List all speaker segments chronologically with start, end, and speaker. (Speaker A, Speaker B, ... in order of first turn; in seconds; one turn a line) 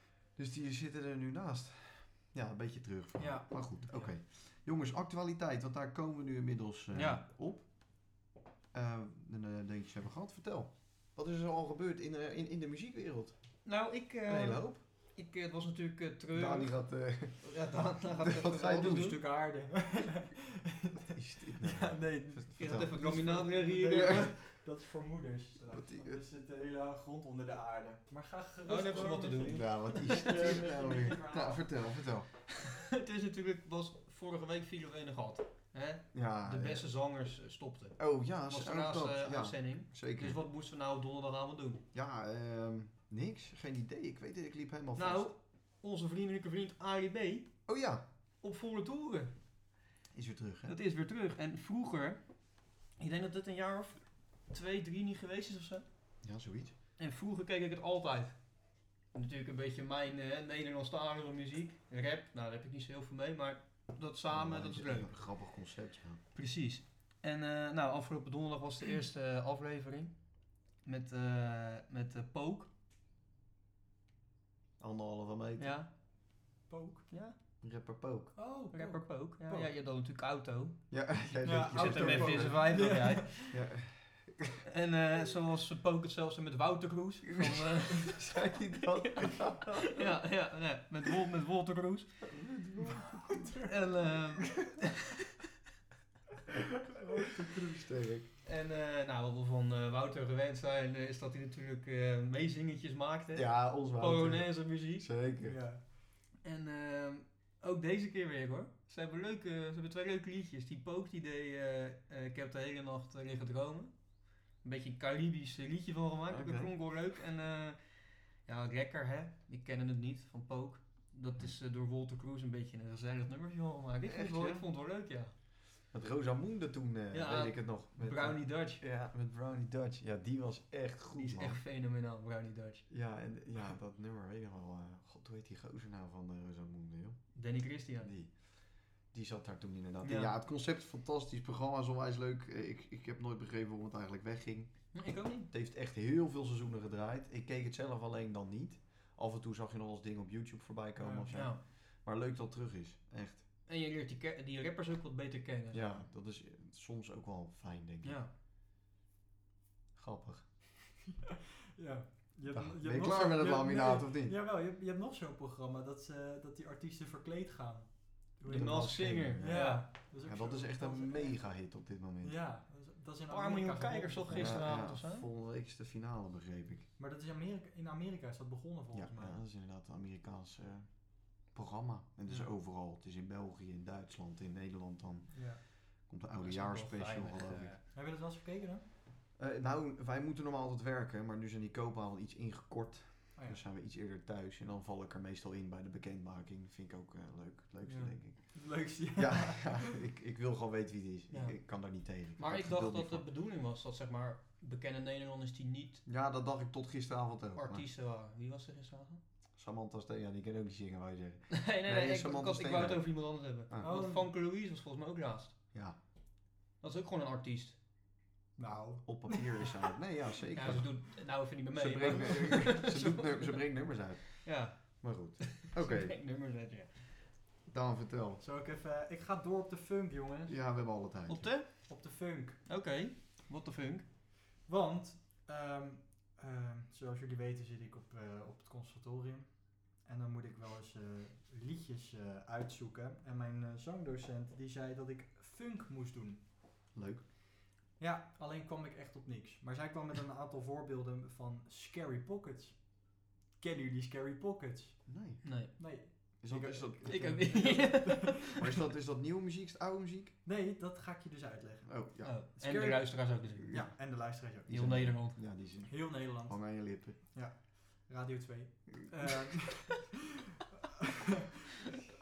Speaker A: 0.3-7.7
Speaker B: 3.2-4.1
Speaker C: 6.9-7.2
Speaker A: 8.7-13.5
Speaker C: 13.6-19.2
Speaker A: 14.2-14.8
Speaker A: 16.3-17.6
Speaker A: 18.2-19.1
Speaker B: 18.8-31.7
Speaker A: 21.1-23.0
Speaker C: 22.6-24.3
Speaker A: 25.7-26.2
Speaker C: 28.7-30.6
Speaker A: 29.5-32.3
Speaker C: 32.6-41.8
Speaker A: 36.1-36.9
Speaker A: 38.0-40.4
Speaker A: 41.9-45.3
Speaker C: 45.0-47.6
Speaker A: 47.6-48.0
Speaker C: 48.4-49.3
Speaker A: 50.1-50.7
Speaker C: 50.7-52.2
Speaker C: 52.9-55.8
Speaker A: 56.2-56.7
Speaker C: 57.0-58.6
Speaker C: 59.1-65.3
Speaker A: 64.3-66.2
Speaker C: 66.3-72.7
Speaker A: 74.8-75.8
Speaker C: 75.6-75.9
Speaker B: 76.7-77.1
Speaker C: 77.1-77.3
Speaker A: 77.6-78.3
Speaker B: 78.3-79.7
Speaker C: 78.7-83.5
Speaker A: 80.9-82.9
Speaker B: 81.4-83.5
Speaker A: 83.5-84.6
Speaker C: 84.7-88.3
Speaker A: 87.3-90.0
Speaker C: 89.0-92.5
Speaker A: 92.3-93.5
Speaker B: 93.3-93.9
Speaker C: 93.6-95.0
Speaker B: 96.8-97.8
Speaker A: 97.6-98.3
Speaker C: 98.4-105.2
Speaker A: 103.3-105.6
Speaker B: 105.4-105.8
Speaker C: 106.4-125.3
Speaker A: 116.3-116.7
Speaker A: 124.0-124.6
Speaker A: 125.9-131.6
Speaker C: 127.1-128.8
Speaker C: 131.2-132.9
Speaker A: 132.9-153.4
Speaker C: 137.3-138.1
Speaker C: 140.0-140.3
Speaker C: 144.9-145.5
Speaker B: 150.9-151.3
Speaker C: 151.3-151.6
Speaker C: 153.7-155.9
Speaker A: 155.7-158.2
Speaker C: 158.0-158.3
Speaker A: 159.9-160.5
Speaker B: 161.8-171.7
Speaker A: 162.5-164.3
Speaker A: 168.5-172.4
Speaker C: 168.5-169.9
Speaker B: 172.2-174.7
Speaker C: 173.3-175.3
Speaker A: 174.3-176.9
Speaker B: 177.0-179.4
Speaker A: 178.9-187.8
Speaker B: 185.3-185.6
Speaker C: 186.4-187.8
Speaker B: 187.9-188.8
Speaker A: 189.4-203.2
Speaker B: 193.3-193.6
Speaker B: 197.8-199.9
Speaker C: 201.3-206.0
Speaker A: 206.1-207.8
Speaker C: 207.6-209.2
Speaker A: 209.6-213.9
Speaker C: 211.5-215.6
Speaker B: 213.8-214.3
Speaker C: 216.8-217.7
Speaker B: 218.6-219.5
Speaker A: 219.0-226.2
Speaker C: 220.5-227.2
Speaker A: 227.7-228.4
Speaker B: 228.4-230.6
Speaker A: 230.5-231.6
Speaker C: 231.3-231.9
Speaker B: 231.8-232.6
Speaker C: 232.7-234.0
Speaker B: 234.6-246.4
Speaker A: 246.9-247.2
Speaker B: 248.0-255.1
Speaker A: 255.1-255.8
Speaker C: 255.4-255.7
Speaker B: 255.8-258.6
Speaker A: 256.4-257.9
Speaker C: 257.0-258.7
Speaker A: 258.6-260.3
Speaker B: 260.4-264.8
Speaker A: 261.8-262.4
Speaker C: 262.2-263.9
Speaker A: 263.6-264.0
Speaker A: 264.6-267.2
Speaker C: 264.7-265.4
Speaker B: 265.9-270.2
Speaker B: 270.7-271.1